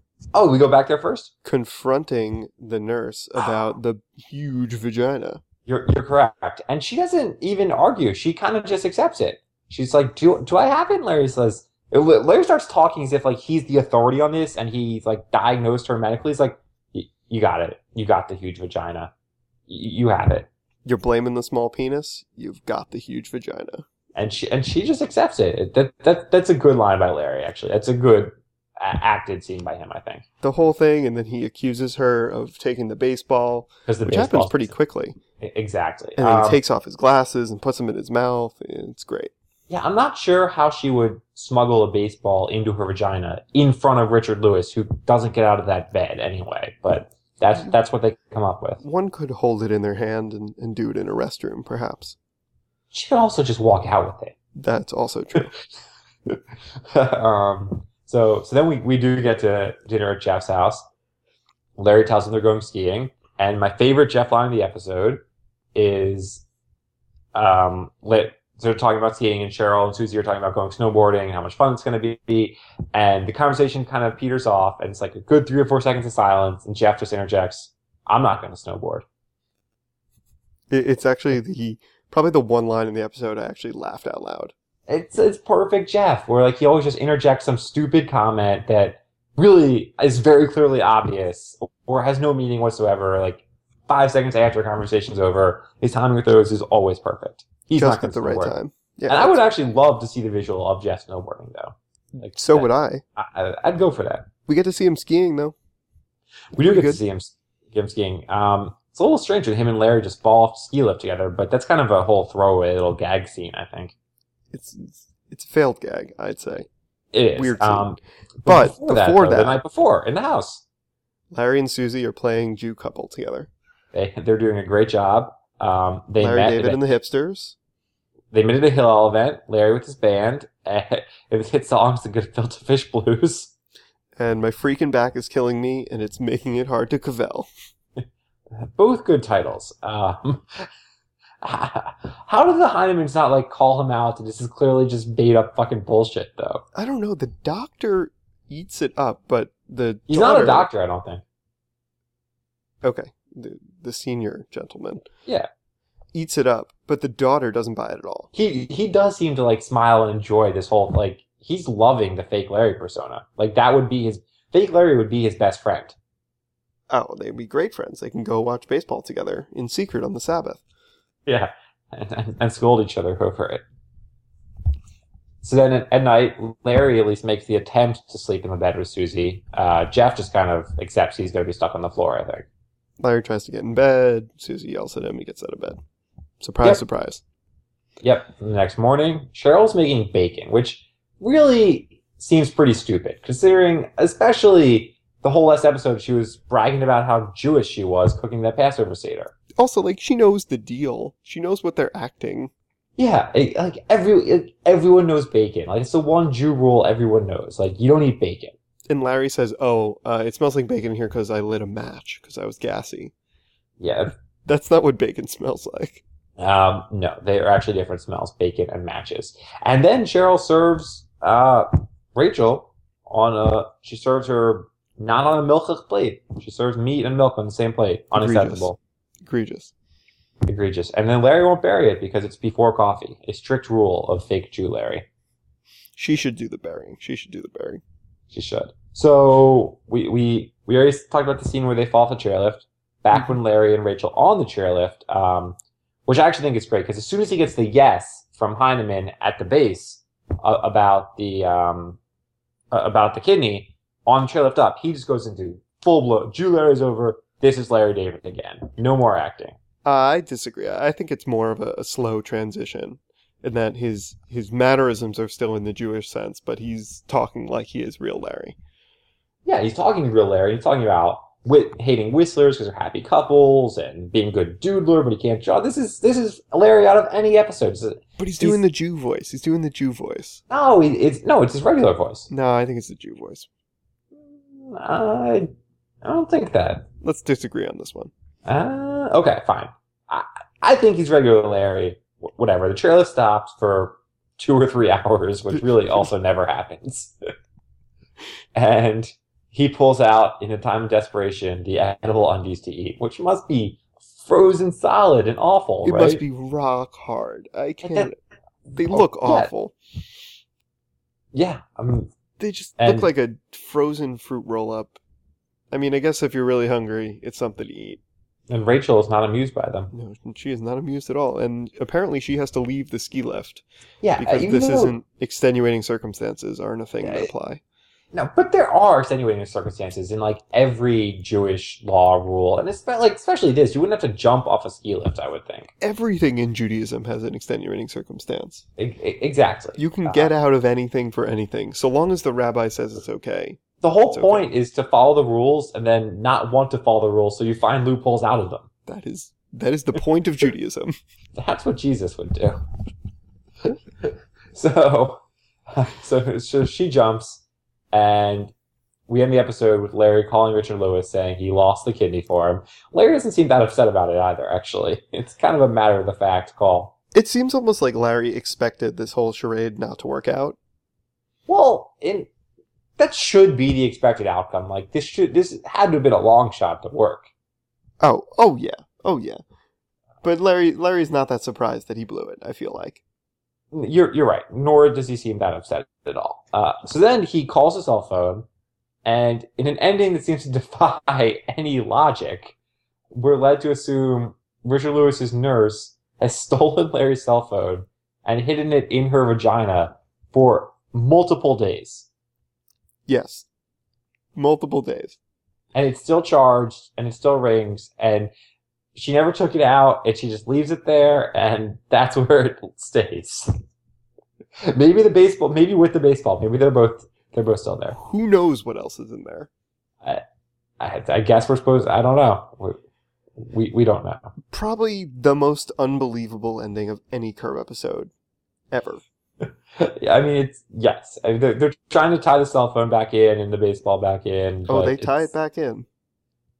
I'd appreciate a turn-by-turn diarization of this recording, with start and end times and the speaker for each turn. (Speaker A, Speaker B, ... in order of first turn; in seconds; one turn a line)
Speaker A: 0.3-1.3
Speaker B: 1.4-5.4
Speaker A: 5.7-19.1
Speaker A: 19.7-20.5
Speaker B: 20.9-23.8
Speaker A: 24.1-30.2
Speaker B: 30.4-35.2
Speaker A: 33.9-34.7
Speaker A: 35.4-36.6
Speaker B: 36.2-39.3
Speaker A: 39.7-48.8
Speaker B: 48.8-52.2
Speaker A: 52.9-54.3
Speaker B: 54.5-55.5
Speaker A: 56.3-60.8
Speaker A: 61.8-65.2
Speaker A: 65.7-66.4
Speaker A: 67.3-79.0
Speaker B: 80.7-84.5
Speaker A: 84.9-98.5
Speaker B: 97.7-99.4
Speaker A: 99.1-104.3
Speaker B: 102.4-103.0
Speaker B: 104.5-105.5
Speaker A: 106.5-113.9
Speaker B: 106.6-107.0
Speaker B: 114.5-116.7
Speaker A: 117.1-120.6
Speaker B: 117.3-119.6
Speaker B: 121.3-123.5
Speaker A: 123.9-126.9
Speaker B: 126.2-127.6
Speaker A: 128.3-133.5
Speaker B: 134.2-137.5
Speaker A: 138.6-140.7
Speaker A: 141.4-146.6
Speaker B: 146.7-150.7
Speaker A: 150.1-151.2
Speaker B: 152.8-155.1
Speaker B: 156.1-158.3
Speaker A: 158.3-165.9
Speaker B: 166.9-170.6
Speaker A: 171.2-173.6
Speaker A: 175.4-182.5
Speaker B: 183.0-185.8
Speaker B: 186.4-187.2
Speaker A: 188.0-199.3
Speaker B: 199.6-202.5
Speaker A: 203.0-208.5
Speaker B: 208.9-213.1
Speaker A: 213.8-214.1
Speaker B: 214.4-216.0
Speaker A: 216.4-228.8
Speaker B: 228.1-228.7
Speaker B: 229.2-229.7
Speaker A: 230.4-235.1
Speaker B: 236.0-237.8
Speaker A: 238.3-252.0
Speaker A: 252.7-259.5
Speaker B: 259.8-268.6
Speaker A: 269.4-278.6
Speaker B: 278.2-280.4
Speaker A: 280.5-282.3
Speaker B: 282.3-283.5
Speaker A: 284.2-285.5
Speaker A: 286.0-286.9
Speaker B: 287.0-288.1
Speaker A: 288.4-297.1
Speaker A: 298.5-306.2
Speaker B: 305.8-308.2
Speaker A: 307.8-308.1
Speaker B: 308.7-309.7
Speaker A: 308.9-309.5
Speaker A: 311.3-312.1
Speaker B: 312.4-315.0
Speaker A: 312.8-313.1
Speaker B: 315.7-318.0
Speaker A: 318.5-319.9
Speaker B: 319.9-323.6
Speaker A: 324.0-325.0
Speaker B: 324.1-327.6
Speaker A: 327.0-327.3
Speaker A: 328.1-335.7
Speaker B: 335.8-338.6
Speaker A: 338.8-340.3
Speaker B: 339.8-343.6
Speaker A: 343.8-348.7
Speaker B: 344.1-344.5
Speaker B: 348.9-350.9
Speaker A: 351.4-352.6
Speaker A: 353.6-355.2
Speaker A: 355.7-358.5
Speaker A: 359.1-366.9
Speaker B: 367.1-370.6
Speaker A: 371.5-372.3
Speaker A: 373.0-377.3
Speaker B: 378.0-379.4
Speaker B: 380.2-383.0
Speaker A: 383.7-388.4
Speaker A: 389.0-392.5
Speaker A: 393.1-402.1
Speaker B: 403.1-403.5
Speaker B: 404.3-405.2
Speaker A: 405.7-408.3
Speaker A: 408.9-413.5
Speaker A: 414.7-418.0
Speaker B: 417.9-419.5
Speaker A: 420.8-422.8
Speaker A: 423.4-424.3
Speaker B: 424.5-428.1
Speaker B: 428.7-429.0
Speaker A: 429.4-435.3
Speaker B: 434.7-435.9